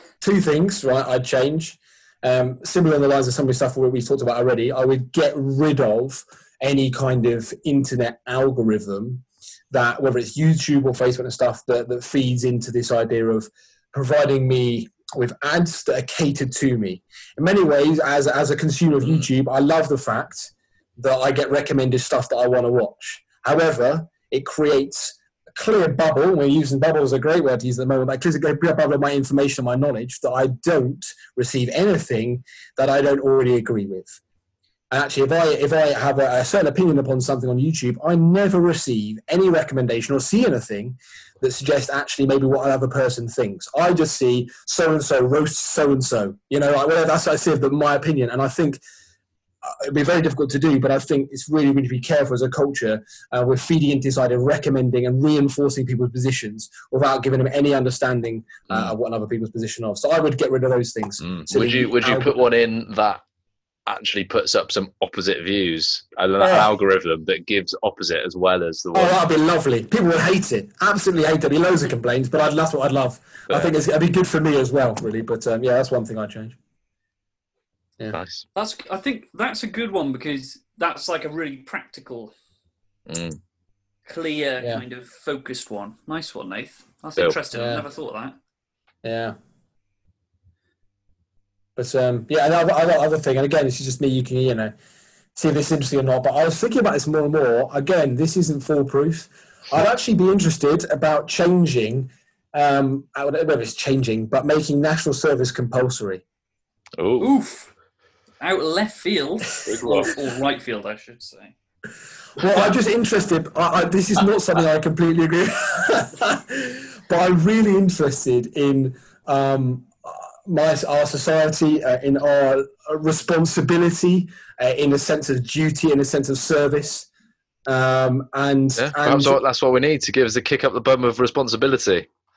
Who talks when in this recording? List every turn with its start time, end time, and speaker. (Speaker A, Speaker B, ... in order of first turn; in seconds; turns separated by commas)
Speaker A: 0.2-34.2, Speaker A: 34.9-48.8, Speaker A: 49.6-62.3, Speaker B: 58.7-58.9, Speaker B: 61.2-63.2, Speaker B: 63.9-69.2, Speaker A: 66.4-66.7, Speaker A: 68.9-76.6, Speaker B: 78.1-78.5, Speaker C: 78.5-82.3, Speaker B: 83.1-83.4, Speaker C: 84.1-88.3, Speaker A: 87.5-87.8, Speaker A: 89.0-89.3, Speaker A: 91.8-94.7, Speaker A: 95.3-106.2, Speaker B: 107.0-107.3, Speaker C: 107.2-107.7, Speaker C: 108.4-111.5, Speaker B: 109.7-110.1, Speaker A: 112.4-127.1, Speaker A: 127.7-129.4, Speaker B: 128.8-132.1